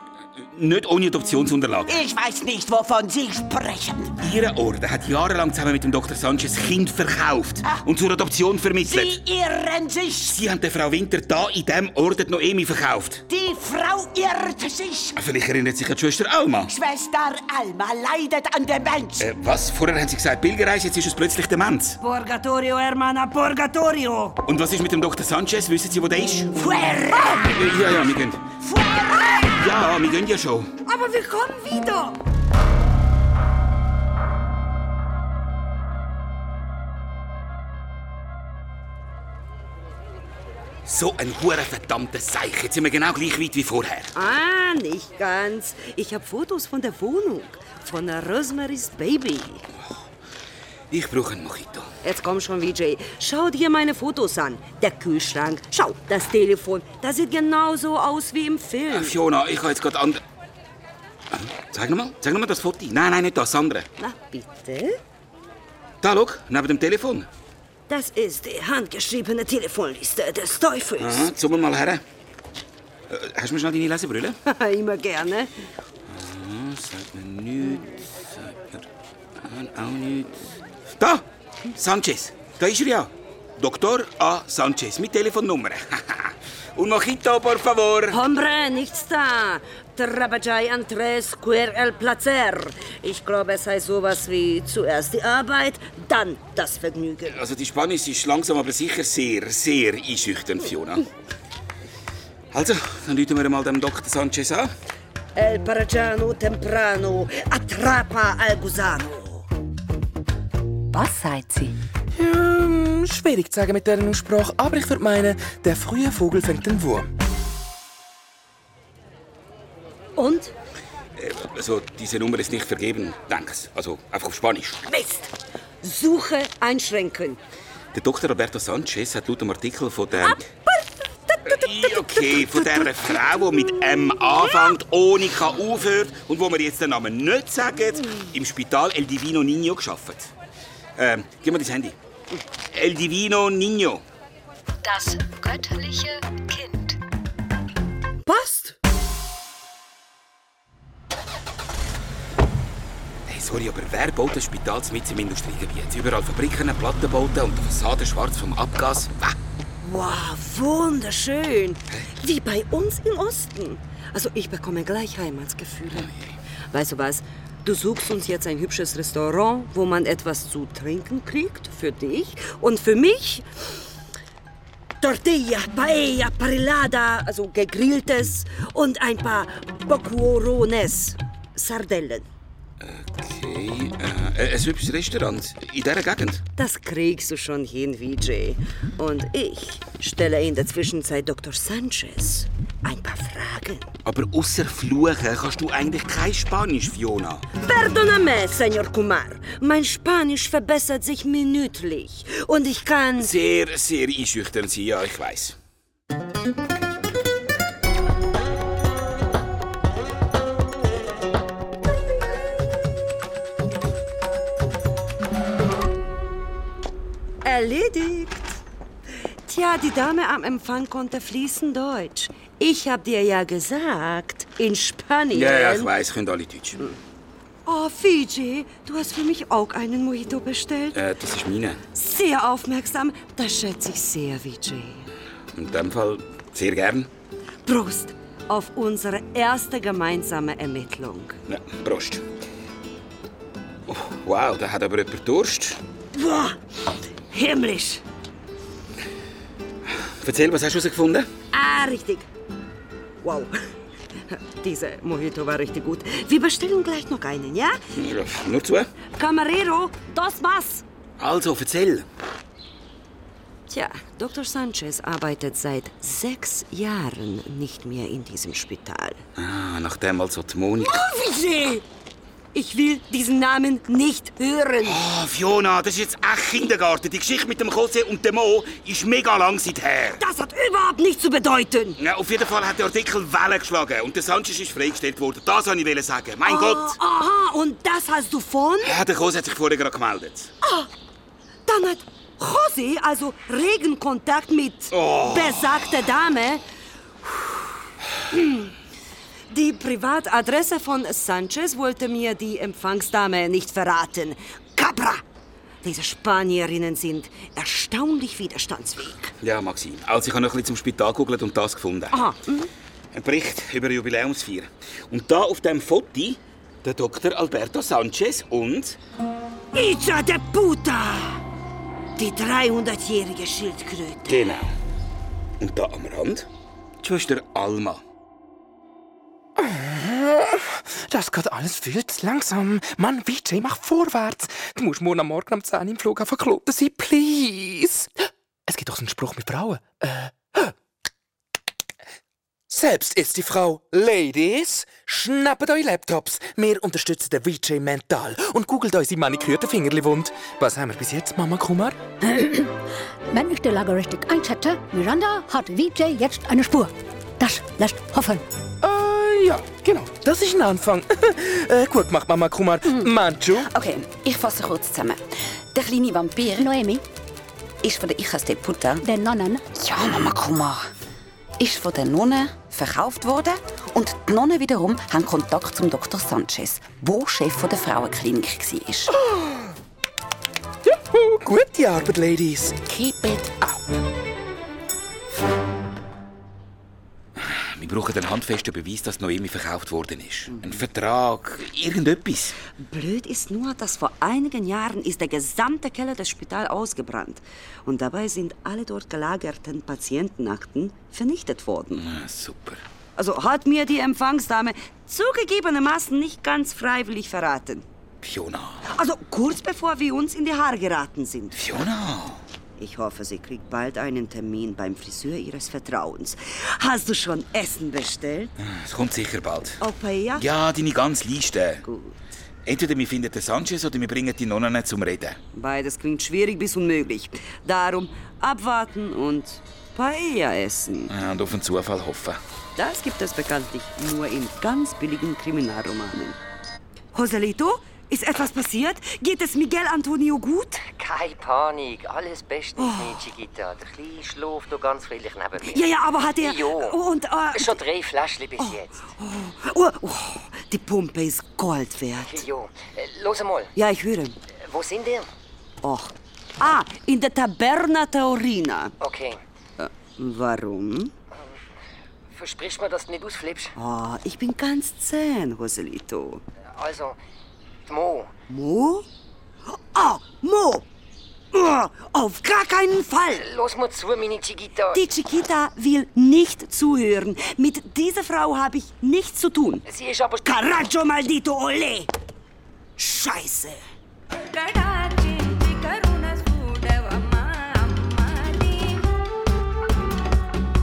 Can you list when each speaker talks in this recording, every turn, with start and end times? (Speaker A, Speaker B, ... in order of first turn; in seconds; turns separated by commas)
Speaker A: 0.5-2.0, Speaker B: 1.9-4.1, Speaker A: 4.2-9.2, Speaker B: 8.8-10.4, Speaker A: 10.3-13.2, Speaker B: 13.3-15.2, Speaker A: 15.2-16.7, Speaker B: 16.7-19.3, Speaker A: 19.2-22.0, Speaker C: 22.0-24.4, Speaker A: 24.4-26.5, Speaker B: 26.5-27.6, Speaker A: 27.4-28.4, Speaker B: 28.6-29.5, Speaker A: 29.6-30.7, Speaker C: 30.9-32.2, Speaker A: 40.9-44.1, Speaker C: 44.1-49.6, Speaker A: 50.9-51.9, Speaker C: 52.0-59.1, Speaker A: 58.9-60.2, Speaker A: 61.3-63.9, Speaker C: 64.0-65.0, Speaker A: 66.0-67.3, Speaker C: 67.9-71.3, Speaker A: 71.0-72.0, Speaker A: 73.1-74.4, Speaker C: 74.5-75.5, Speaker A: 76.1-78.9, Speaker A: 79.4-80.4, Speaker A: 81.0-88.2, Speaker C: 88.1-97.4, Speaker A: 97.3-101.0, Speaker A: 102.5-104.7, Speaker C: 105.3-109.5, Speaker D: 112.1-117.1, Speaker C: 120.2-120.5, Speaker A: 121.2-124.8, Speaker C: 124.9-127.4, Speaker A: 127.9-130.4, Speaker C: 130.2-134.8, Speaker A: 131.5-140.3, Speaker A: 141.0-142.0, Speaker A: 142.7-144.0, Speaker E: 144.8-147.0, Speaker C: 148.3-148.8, Speaker A: 153.3-159.4, Speaker C: 159.8-166.1, Speaker A: 166.0-166.3, Speaker C: 166.7-173.5, Speaker C: 175.0-182.3, Speaker A: 182.8-186.4, Speaker C: 186.6-193.9, Speaker A: 194.1-197.4, Speaker C: 197.6-203.3, Speaker A: 203.2-205.6, Speaker C: 217.4-218.6, Speaker C: 219.5-225.9, Speaker A: 225.3-226.8, Speaker C: 227.7-231.0, Speaker A: 230.9-231.8, Speaker C: 231.9-235.1, Speaker A: 235.5-237.1, Speaker C: 237.7-241.4, Speaker A: 241.5-242.2, Speaker A: 243.9-245.8, Speaker C: 246.1-246.6, Speaker C: 247.3-248.0, Speaker A: 250.0-251.3, Speaker C: 251.5-252.3, Speaker C: 253.2-253.6, Speaker C: 254.3-257.8, Speaker A: 257.9-258.9, Speaker C: 259.2-260.8, Speaker A: 261.2-262.1, Speaker C: 263.7-269.2, Speaker A: 269.4-271.0, Speaker C: 270.8-271.8, Speaker C: 272.5-275.0, Speaker A: 274.8-280.2, Speaker C: 280.2-282.0, Speaker A: 282.0-287.0, Speaker C: 286.4-288.9, Speaker A: 288.8-290.5, Speaker C: 290.6-290.9, Speaker C: 291.7-296.6, Speaker A: 294.9-295.8, Speaker C: 298.3-298.7, Speaker C: 299.5-305.2, Speaker C: 305.8-309.3, Speaker A: 309.4-312.2, Speaker C: 312.1-312.7, Speaker A: 313.1-319.0, Speaker C: 319.7-321.4, Speaker C: 322.2-324.5, Speaker A: 324.3-324.7, Speaker A: 325.6-326.5, Speaker A: 327.0-328.0, Speaker D: 329.6-340.8, Speaker D: 342.7-352.0, Speaker E: 352.2-352.8, Speaker E: 353.3-358.4, Speaker D: 358.8-363.7, Speaker F: 362.9-366.8, Speaker E: 366.6-367.0, Speaker F: 367.8-369.1, Speaker E: 369.0-369.6, Speaker F: 369.7-370.9, Speaker F: 371.6-379.1, Speaker D: 379.2-379.6, Speaker D: 380.8-383.9, Speaker A: 387.4-392.6, Speaker C: 392.8-402.1, Speaker A: 402.0-402.8, Speaker C: 403.2-407.9, Speaker A: 408.2-408.9, Speaker C: 408.9-411.6, Speaker A: 411.5-412.4, Speaker C: 412.8-418.5, Speaker A: 418.6-419.8, Speaker C: 419.8-420.4, Speaker A: 420.4-421.8, Speaker C: 421.8-422.2, Speaker A: 422.6-425.4, Speaker C: 425.5-431.1, Speaker A: 431.1-432.4, Speaker C: 432.8-436.4, Speaker C: 437.1-440.8, Speaker G: 440.8-447.0, Speaker C: 442.8-443.3, Speaker C: 445.6-447.8, Speaker G: 447.5-449.1, Speaker C: 448.6-452.4, Speaker G: 452.2-453.7, Speaker C: 453.8-454.4, Speaker G: 454.7-455.3, Speaker C: 455.8-458.9, Speaker G: 459.0-459.4, Speaker C: 459.8-461.1, Speaker G: 462.3-463.7, Speaker C: 463.8-466.4, Speaker G: 466.7-467.2, Speaker G: 467.9-468.3, Speaker C: 468.5-469.1, Speaker C: 469.7-470.9, Speaker C: 471.5-473.5, Speaker G: 473.4-475.1, Speaker C: 474.9-479.9, Speaker G: 479.9-480.5, Speaker C: 480.4-482.1, Speaker C: 483.0-483.8, Speaker C: 484.4-489.1